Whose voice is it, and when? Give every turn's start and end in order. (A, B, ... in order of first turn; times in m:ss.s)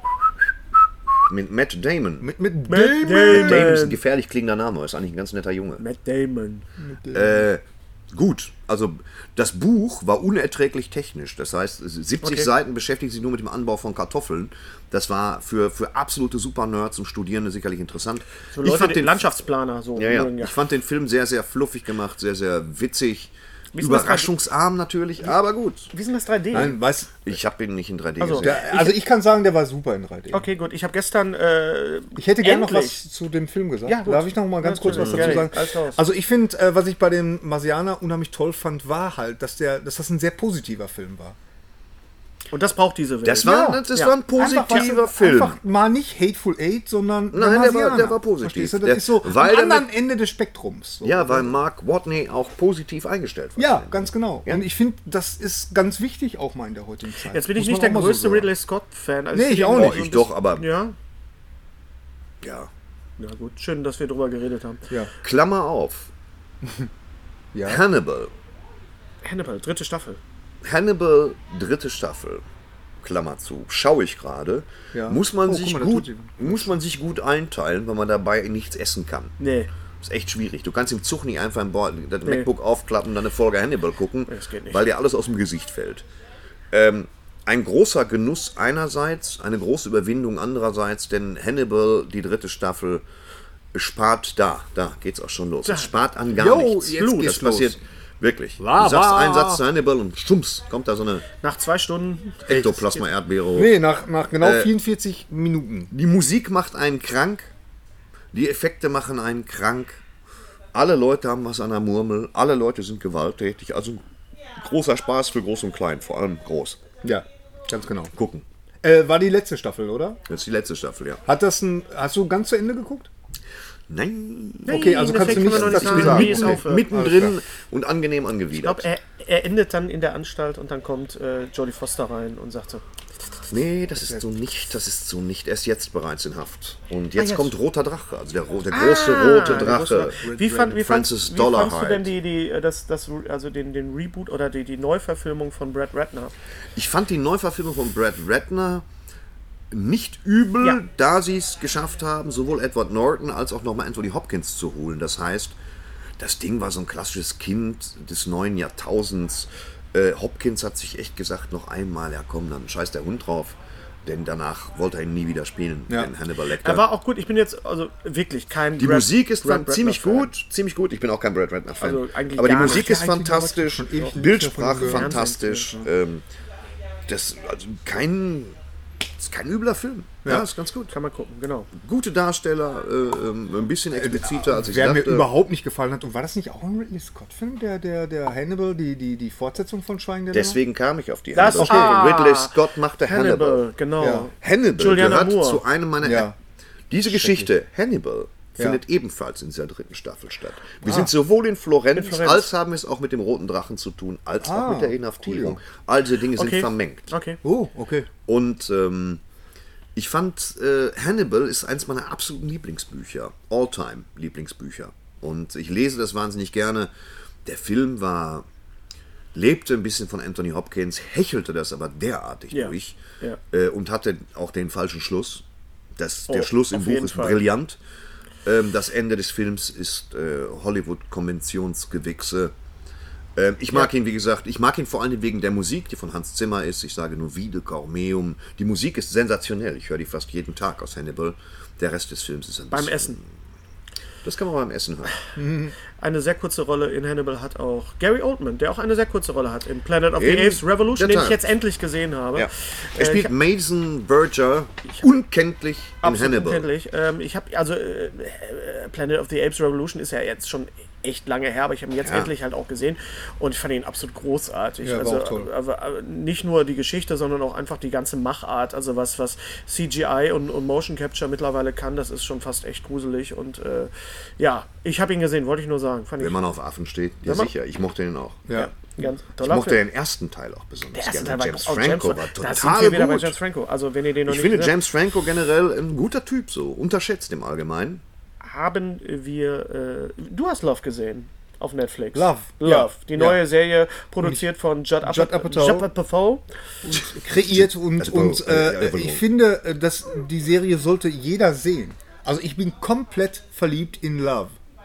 0:01.3-0:02.3 A
0:02.2-0:03.8 B
0:02.7-0:04.0 C
0:03.3-0:05.8 A
0:05.8-0:06.7 C
0:06.8-0:07.5 B
0:07.1-0:19.3 A
0:12.2-0:12.5 C
0:18.5-0:20.5 C
0:20.0-0:25.9 A
0:23.8-0:24.3 C
0:25.9-0:26.8 C
0:26.5-0:27.3 B
0:27.2-0:28.7 A
0:28.2-0:29.0 C
0:28.4-0:30.5 B
0:30.3-0:33.0 C
0:32.2-0:41.4 B
0:33.9-0:36.0 C
0:34.9-0:35.5 A
0:42.5-0:44.2 C
0:43.2-0:45.6 A
0:43.4-0:51.5 B
0:47.3-0:49.9 A
0:51.0-0:54.6 A
0:53.6-0:58.5 B
0:57.3-1:01.0 C
0:59.3-1:00.1 B
0:59.7-1:00.6 A
1:02.4-1:02.7 A
1:03.2-1:04.9 C
1:05.2-1:06.1 A
1:07.5-1:07.8 B
1:07.6-1:08.3 A
1:09.2-1:10.2 C
1:10.6-1:12.4 A
1:13.0-1:19.4 A
1:14.9-1:16.8 B
1:19.4-1:19.7 C
1:20.0-1:26.1 A
1:24.3-1:24.8 C
1:26.7-1:33.0 A
1:33.7-1:41.2 A
1:35.6-1:35.9 C
1:36.3-1:37.8 B
1:37.0-1:37.3 C
1:38.6-1:39.6 B
1:41.4-1:42.6 C
1:42.5-1:42.9 B
1:42.5-1:43.8 A
1:43.5-1:45.9 B
1:44.4-1:44.7 A
1:45.9-1:47.5 A
1:48.3-1:50.0 A
1:50.7-1:54.0 A
1:54.6-1:56.8 A
1:57.0-1:58.1 B
1:58.1-1:58.4 A
1:58.8-2:00.2 B
2:00.3-2:01.2 A
2:01.3-2:03.1 B
2:03.9-2:08.9 A
2:04.7-2:06.9 C
2:04.7-2:07.4 B
2:08.6-2:12.8 C
2:13.5-2:22.1 A
2:17.2-2:17.5 C
2:18.7-2:26.3 C
2:19.5-2:20.8 B
2:26.8-2:28.8 A
2:29.7-2:35.6 A
2:36.2-2:46.8 A
2:46.6-2:50.3 C
2:48.8-2:56.2 A
2:51.8-2:52.9 C
2:52.6-2:55.8 B
2:54.8-2:55.8 C
2:57.1-2:58.6 A
2:59.2-3:00.9 A
3:00.9-3:01.7 C
3:01.7-3:05.3 A
3:03.9-3:10.6 B
3:10.3-3:13.6 A
3:11.4-3:15.6 C
3:11.6-3:12.0 B
3:14.0-3:14.3 B
3:14.4-3:16.4 A
3:16.0-3:16.4 B
3:16.9-3:27.1 A
3:17.1-3:17.5 B
3:20.8-3:21.1 B
3:22.0-3:22.5 C
3:24.4-3:25.6 B
3:26.4-3:27.4 C
3:27.4-3:28.1 B
3:28.2-3:29.2 A
3:30.0-3:36.9 A
3:37.4-3:38.5 A
3:39.3-3:43.0 A
3:42.5-3:43.4 C
3:43.5-3:45.4 A
3:46.0-3:47.8 A
3:46.3-3:47.4 C
3:48.4-3:52.5 A
3:53.4-4:03.3 A
4:02.7-4:03.2 C
4:04.2-4:05.2 A
4:05.4-4:05.7 B
4:06.0-4:13.3 C
4:10.2-4:11.5 A
4:12.4-4:16.7 A
4:16.0-4:36.4 C
4:22.0-4:22.3 A
4:24.8-4:25.5 B
4:36.2-4:38.4 A
4:37.2-4:37.5 C
4:38.5-4:39.8 C
4:39.4-4:43.4 A
4:40.9-4:44.7 C
4:44.3-4:48.0 A
4:48.4-4:56.4 C
4:52.1-4:53.4 B
4:55.0-4:55.9 B
4:56.8-5:04.6 B
4:57.4-4:59.2 A